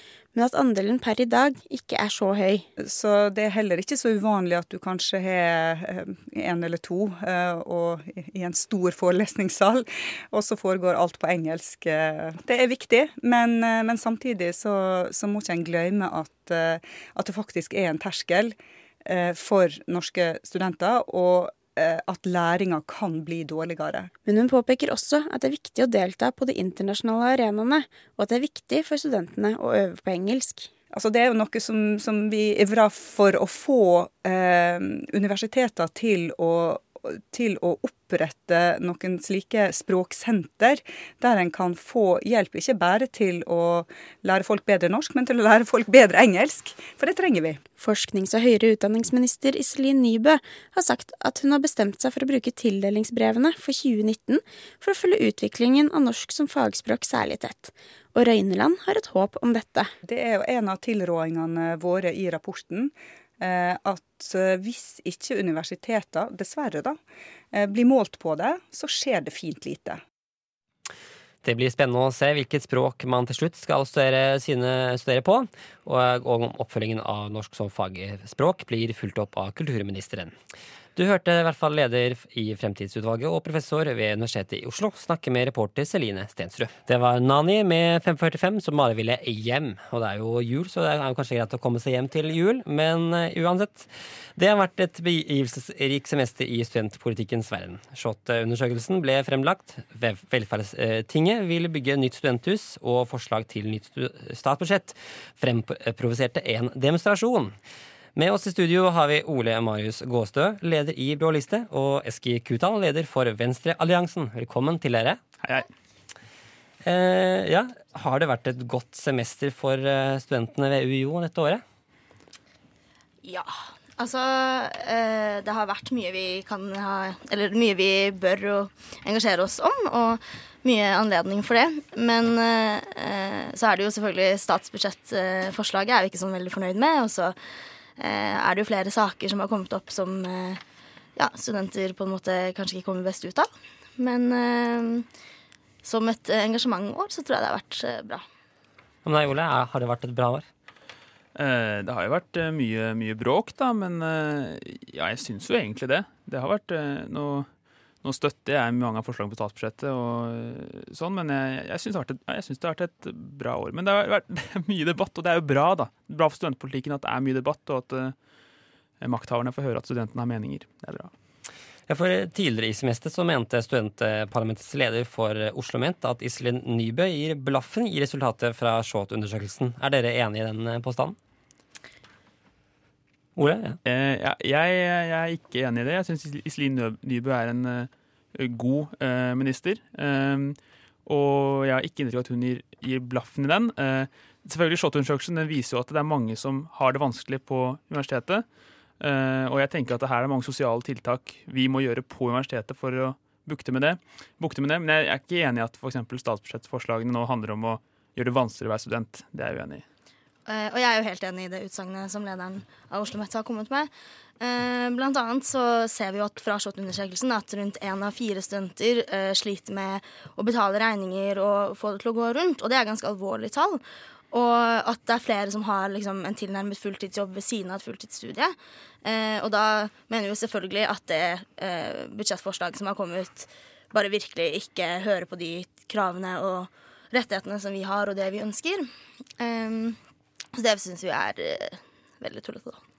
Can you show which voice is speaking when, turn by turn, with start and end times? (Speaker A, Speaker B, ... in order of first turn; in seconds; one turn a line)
Speaker A: 0.3-2.7
Speaker B: 2.8-24.1
Speaker A: 24.2-30.7
Speaker B: 30.9-47.6
Speaker A: 47.8-59.9
Speaker B: 60.0-67.0
Speaker B: 67.5-70.0
Speaker C: 71.4-80.3
Speaker C: 81.0-107.5
Speaker C: 108.2-115.2
Speaker C: 116.8-121.6
Speaker D: 123.2-137.4
Speaker D: 138.0-140.6
Speaker D: 141.2-145.1
Speaker D: 145.8-148.2
Speaker C: 149.1-150.5
Speaker E: 151.4-157.5
Speaker E: 158.0-168.2
Speaker E: 169.0-171.1
Speaker C: 171.9-181.2
Speaker C: 183.4-183.8
Speaker E: 183.8-198.4
Speaker E: 199.0-209.8
Speaker D: 210.5-213.9
Speaker D: 214.4-223.8
Speaker D: 224.3-238.9
Speaker D: 239.4-240.0
Speaker D: 240.6-242.8